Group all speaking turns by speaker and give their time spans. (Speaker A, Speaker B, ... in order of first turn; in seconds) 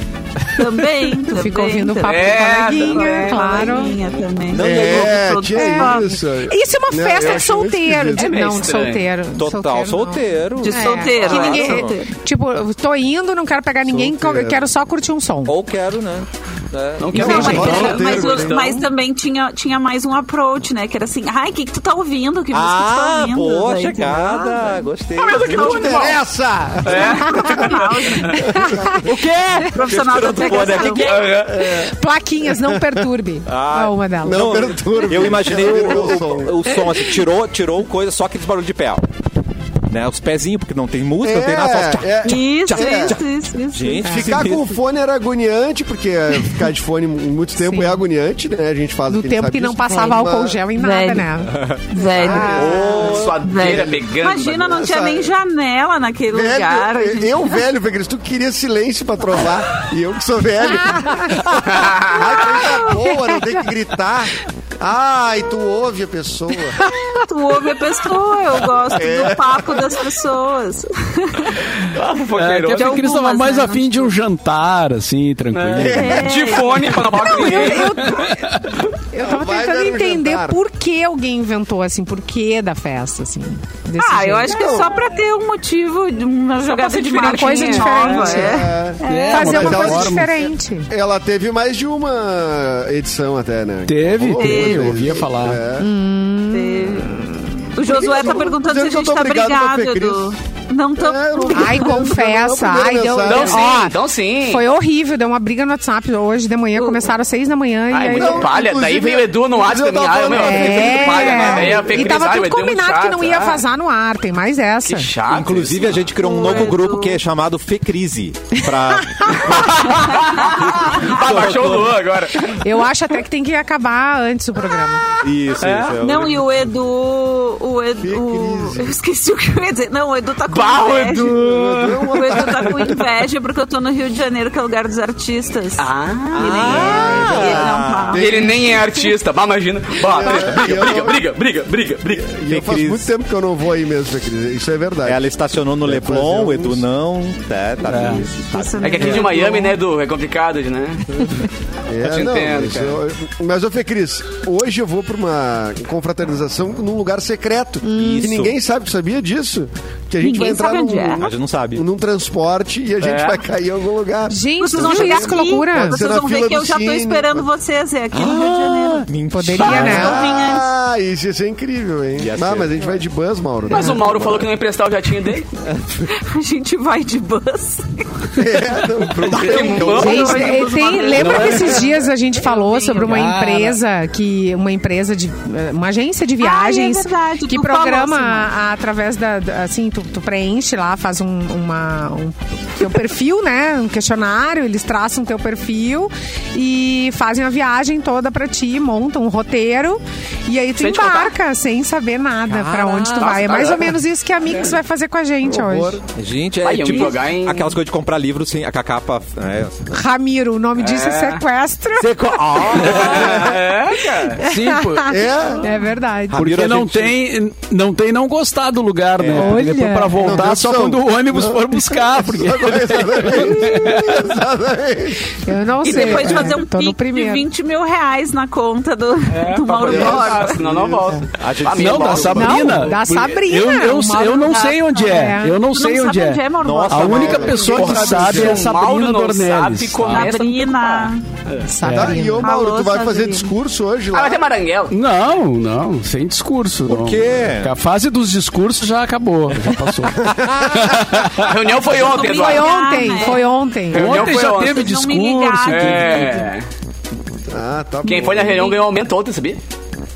Speaker A: 0.6-6.2, 10.6-12.1, 17.2-24.8, 26.9-28.5, 29.7-31.3, 36.7-37.2, 42.2-44.0, 50.8-51.3, 51.9-57.6, 62.2-62.8, 67.1-71.6, 72.7-74.1, 75.9-77.9, 84.0-90.0, 96.5-102.1, 116.2-117.2, 120.1-121.2, 126.0-131.5, 132.0-139.1, 148.4-149.8, 160.2-161.3, 164.6-170.7, 176.1-178.3, 179.6-183.2, 186.4-188.5, 225.8-230.6, 234.4-238.3, 240.1-241.2, 242.4-243.5, 251.9-253.6, 254.3-256.3
Speaker B: 1.2-3.9, 5.5-15.5, 17.2-17.7, 28.6-29.0, 31.2-34.5, 44.0-44.3, 47.6-48.0, 49.1-51.5, 52.2-52.8, 60.8-61.4, 62.4-63.7, 66.8-67.2, 77.2-84.6, 87.2-88.6, 89.3-90.9, 95.8-97.5, 101.5-108.5, 110.3-115.1, 119.2-119.4, 122.4-125.1, 140.3-140.6, 157.8-158.3, 164.3-166.0, 169.3-170.2, 179.8-206.0, 209.9-212.2, 214.4-216.5, 219.3-220.4, 223.6-224.1, 225.4-227.4, 232.4-235.6, 241.7-242.5, 252.0-254.3
Speaker C: 2.0-4.3, 8.1-9.1, 11.2-11.5, 17.0-18.8, 25.2-26.2, 26.8-28.4, 30.2-31.8, 52.9-54.9, 71.8-73.1, 75.5-78.2, 86.6-88.4, 103.2-104.7, 107.9-113.6, 114.8-116.1, 119.5-122.6, 125.5-126.0, 130.5-132.7, 135.8-137.2, 138.2-142.3, 148.8-151.4, 152.0-153.0, 163.0-163.4, 173.7-175.5, 179.3-180.6, 200.8-201.4, 203.2-204.0, 206.6-207.8, 210.8-211.4, 212.8-214.4, 229.3-233.0, 237.7-241.7, 244.1-244.9, 251.2-252.8, 253.9-254.9, 255.7-256.7, 258.1-259.6
Speaker D: 4.5-5.3, 9.4-12.0, 15.5-18.0, 22.5-26.0, 29.0-31.2, 33.5-39.1, 39.9-42.3, 43.7-44.7, 51.5-53.5, 115.3-122.0, 125.2-126.4, 136.3-138.2, 142.5-143.1, 145.1-149.0, 157.9-158.5, 161.2-161.8, 168.1-170.3, 172.2-172.8, 202.5-203.5, 206.2-209.9, 212.5-213.6, 216.3-217.1, 219.2-219.7, 231.3-232.9, 236.6-238.0, 246.9-247.7, 250.2-251.0
Speaker E: 4.6-8.3, 13.8-14.7, 17.1-18.7, 25.4-29.1, 31.2-31.9, 32.5-33.0, 34.2-36.6, 41.2-43.2, 44.1-50.6, 52.0-53.2, 54.7-55.3, 56.3-66.8, 69.0-69.9, 75.7-76.3, 79.2-80.6, 84.5-84.9, 88.1-95.9, 97.8-100.3, 101.0-103.7, 108.1-112.1, 128.0-129.0, 131.2-132.9, 136.6-138.8, 140.0-141.2, 142.1-145.2, 145.8-146.8, 151.9-167.5, 169.7-174.2, 178.3-180.5, 205.4-206.0, 215.0-215.8, 220.2-225.3, 225.9-226.4, 229.8-231.2, 237.1-238.7, 241.9-244.4, 250.2-250.7, 257.5-258.8
Speaker F: 72.3-76.2, 78.0-78.8, 89.0-90.3, 93.9-95.6, 147.8-148.3, 179.2-179.8, 181.2-181.7, 183.0-183.8, 212.0-213.6, 214.4-215.1, 216.3-224.2, 231.8-240.3, 241.8-242.2, 244.9-251.5, 253.9-256.5